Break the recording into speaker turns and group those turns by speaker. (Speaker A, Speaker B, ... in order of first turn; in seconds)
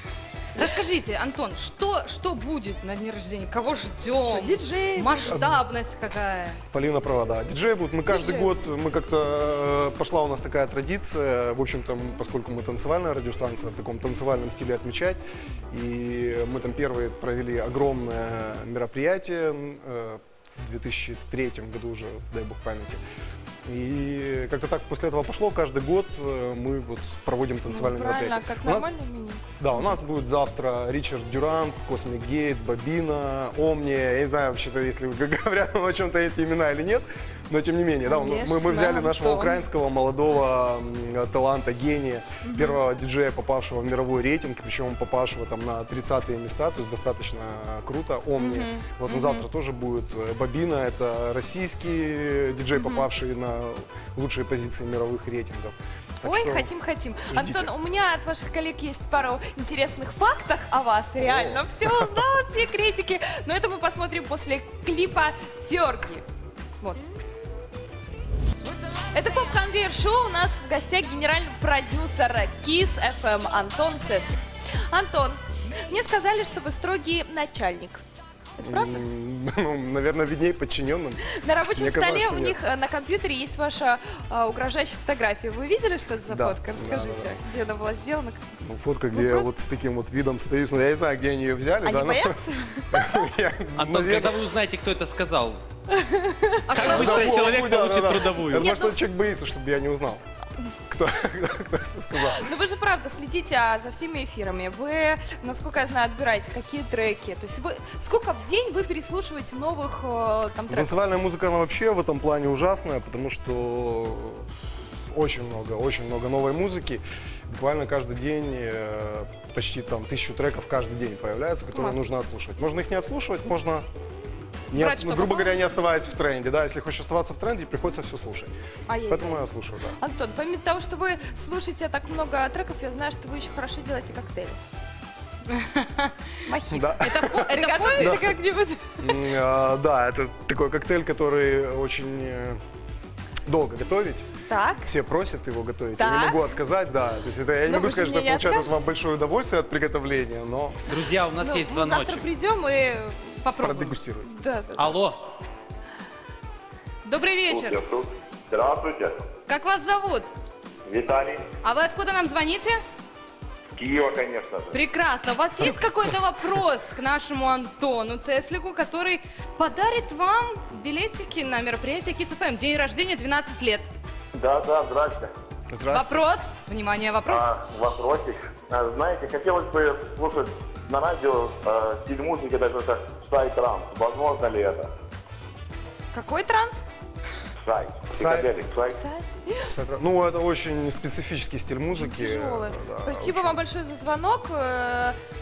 Speaker A: 0.6-6.6, 96.7-97.2, 124.8-125.6, 135.5-136.1, 137.0-138.2, 153.4-154.0, 157.1-157.8, 159.5-160.3, 161.6-162.8, 164.7-173.9, 175.9-177.6
Speaker B: 4.2-5.3, 8.1-8.6, 27.7-29.9, 38.0-39.6, 42.4-42.8, 48.4-49.5, 52.8-53.1, 56.2-67.0, 69.1-78.0, 78.6-79.1, 81.3-88.5, 89.1-89.5, 91.8-93.3, 95.9-97.6, 98.5-99.0, 102.2-111.0, 121.7-122.0, 128.9-129.5, 130.0-134.6, 136.5-139.2, 144.5-144.9, 146.0-146.5, 147.7-148.8, 151.4-153.5, 154.3-155.0, 186.1-186.9, 188.9-189.7, 191.9-195.2
Speaker C: 5.3-5.6, 6.7-23.0, 23.7-28.9, 29.6-56.7, 57.3-57.7, 61.2-62.0, 78.6-82.6, 86.3-87.3, 88.6-92.4, 92.9-94.4, 96.8-100.2, 100.9-102.5, 110.7-114.5, 115.1-123.9, 124.7-128.5, 129.1-130.0, 136.7-138.3, 139.0-142.6, 143.5-144.3, 144.8-150.8, 153.6-154.3, 175.7-176.2, 188.1-188.6, 189.7-193.6
Speaker D: 93.8-95.6, 96.7-98.7, 150.9-152.3, 154.8-155.2
Speaker E: 157.5-159.3, 160.9-161.5, 163.7-164.8, 174.3-175.3, 177.3-184.9, 187.6-189.0